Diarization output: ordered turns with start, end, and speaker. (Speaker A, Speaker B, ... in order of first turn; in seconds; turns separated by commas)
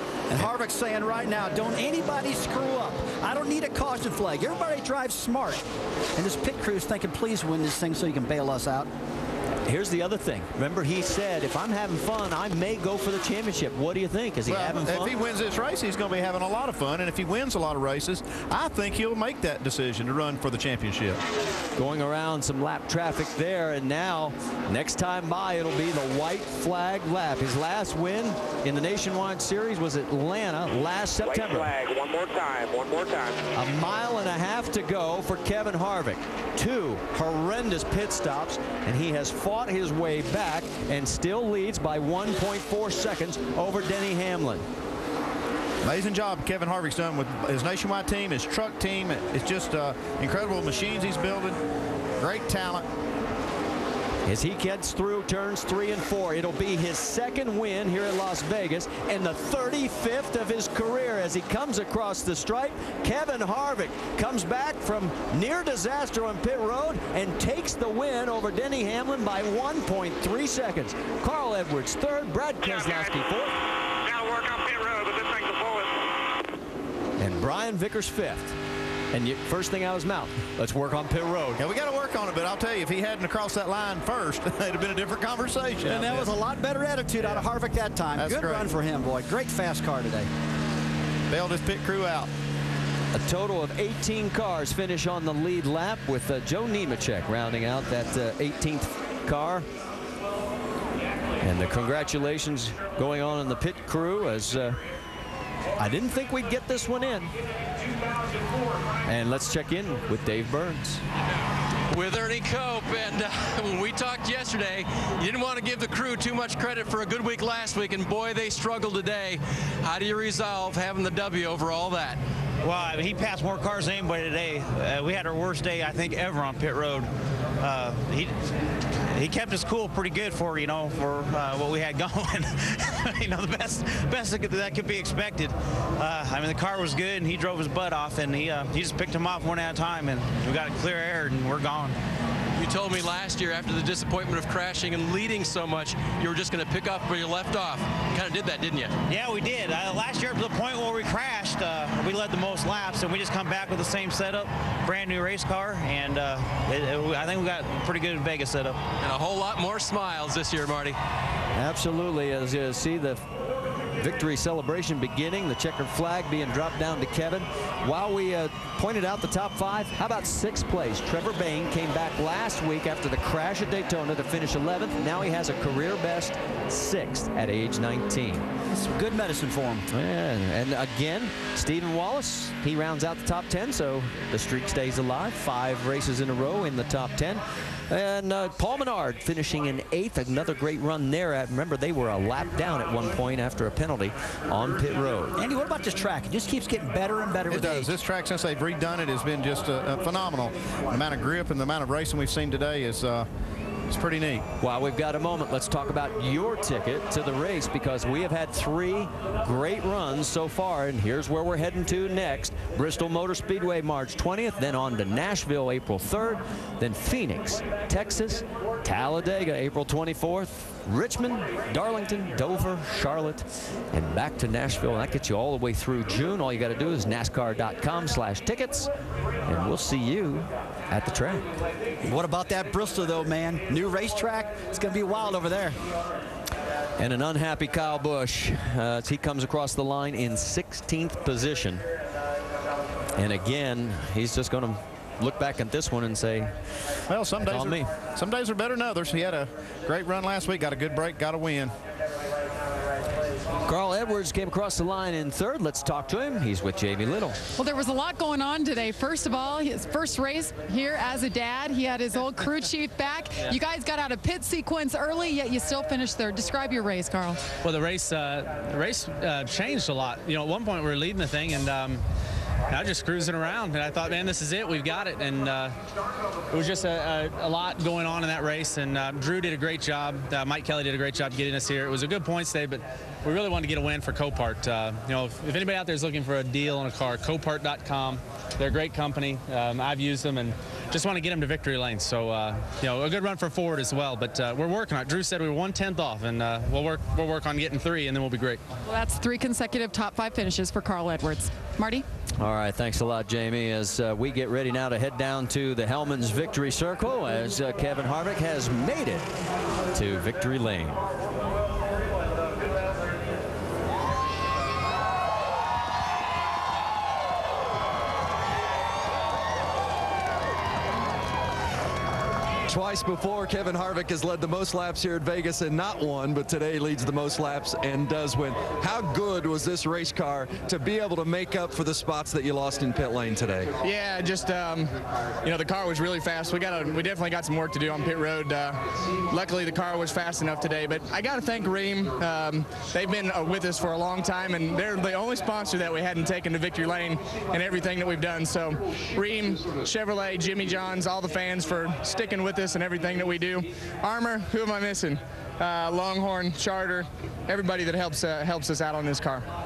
Speaker A: 0.3-5.6, Speaker A: 6.2-8.9, Speaker B: 9.7-15.1, Speaker C: 14.4-21.2, Speaker B: 21.8-31.7, Speaker D: 31.2-33.4, Speaker B: 33.5-44.6, Speaker C: 45.8-51.6, Speaker C: 52.2-52.9, Speaker B: 54.2-73.5, Speaker D: 72.6-73.3, Speaker D: 74.0-76.2, Speaker B: 77.2-78.6, Speaker B: 79.1-81.6, Speaker C: 81.6-86.3, Speaker A: 85.8-90.3, Speaker C: 88.1-88.7, Speaker C: 91.3-92.3, Speaker B: 93.1-99.7, Speaker B: 101.4-104.8, Speaker B: 105.8-107.3, Speaker B: 109.0-111.0, Speaker E: 111.9-122.2, Speaker F: 122.6-127.1, Speaker F: 127.6-128.3, Speaker F: 129.0-142.0, Speaker E: 142.6-148.9, Speaker F: 149.1-158.8, Speaker E: 159.0-161.0, Speaker B: 161.5-163.2, Speaker B: 163.9-178.4, Speaker A: 178.7-179.8, Speaker B: 179.9-195.4, Speaker A: 195.4-197.9, Speaker C: 197.5-203.3, Speaker C: 203.9-204.5, Speaker B: 204.6-228.9, Speaker B: 229.5-231.5, Speaker A: 232.0-235.8, Speaker B: 237.0-241.8, Speaker B: 243.2-246.5, Speaker C: 247.1-251.7, Speaker B: 247.4-247.9, Speaker B: 253.6-257.4, Speaker G: 257.6-267.4, Speaker H: 267.6-272.0, Speaker H: 272.7-275.8, Speaker H: 276.5-298.6, Speaker G: 298.9-302.1, Speaker B: 302.4-309.3, Speaker B: 309.9-311.0, Speaker I: 322.7-333.7, Speaker J: 333.8-334.9, Speaker J: 335.4-359.4